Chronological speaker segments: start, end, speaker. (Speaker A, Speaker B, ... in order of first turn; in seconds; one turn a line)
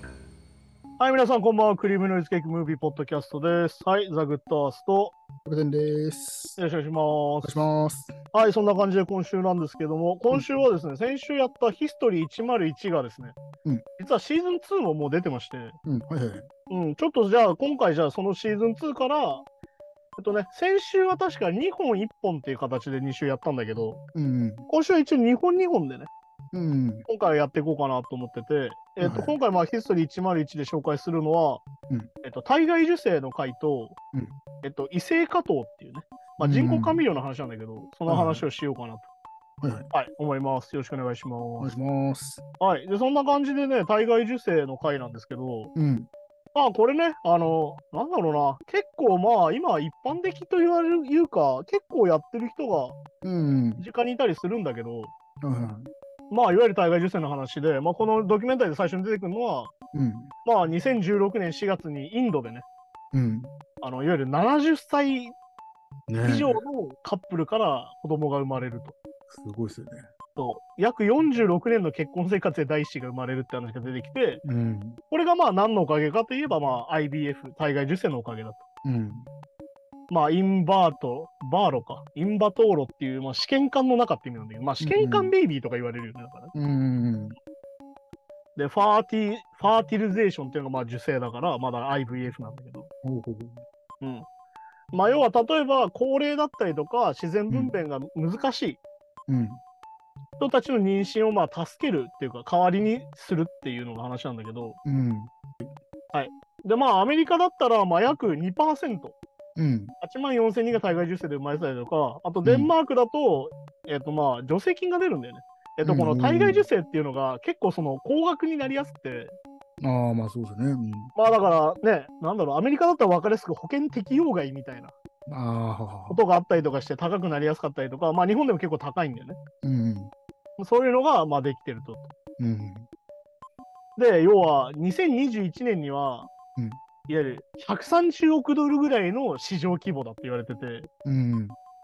Speaker A: 1.0-5.2
Speaker B: 5.4-6.6
Speaker A: 6.6-7.7
Speaker B: 7.4-8.1
Speaker A: 8.3-13.4
Speaker A: 14.0-15.8
Speaker B: 15.8-16.5
Speaker A: 16.7-19.4
Speaker A: 20.2-24.0
Speaker B: 24.1-24.7
Speaker A: 24.7-26.1
Speaker B: 26.5-27.1
Speaker A: 27.1-31.6
Speaker B: 29.0-29.3
Speaker A: 32.2-34.0
Speaker A: 34.6-39.1
Speaker B: 36.4-37.0
Speaker B: 38.1-38.4
Speaker B: 39.6-39.9
Speaker A: 39.9-41.7
Speaker B: 41.6-42.4
Speaker A: 42.6-45.7
Speaker B: 45.8-46.1
Speaker A: 46.5-53.0
Speaker B: 53.2-53.8
Speaker A: 53.8-55.1
Speaker B: 55.4-55.9
Speaker A: 56.3-59.7
Speaker B: 59.9-60.3
Speaker A: 60.4-62.6
Speaker B: 63.1-63.5
Speaker A: 63.8-65.3
Speaker B: 66.1-66.6
Speaker A: 66.2-69.0
Speaker B: 69.3-70.1
Speaker A: 70.4-74.4
Speaker B: 74.4-75.0
Speaker A: 75.1-78.6
Speaker B: 78.8-79.3
Speaker A: 80.1-86.5
Speaker B: 84.8-85.3
Speaker B: 86.5-87.4
Speaker A: 88.6-92.9
Speaker B: 93.0-93.6
Speaker A: 94.0-94.3
Speaker A: 94.9-98.8
Speaker B: 99.3-99.6
Speaker A: 100.4-104.8
Speaker B: 104.8-105.3
Speaker A: 106.1-109.2
Speaker B: 109.6-109.9
Speaker A: 110.0-119.3
Speaker B: 112.4-112.7
Speaker B: 115.8-116.7
Speaker B: 119.8-121.1
Speaker A: 121.2-124.9
Speaker B: 125.3-126.2
Speaker A: 126.1-129.4
Speaker B: 129.6-130.1
Speaker A: 130.6-132.1
Speaker B: 132.4-132.9
Speaker A: 134.0-136.3
Speaker A: 137.1-140.9
Speaker B: 141.1-141.6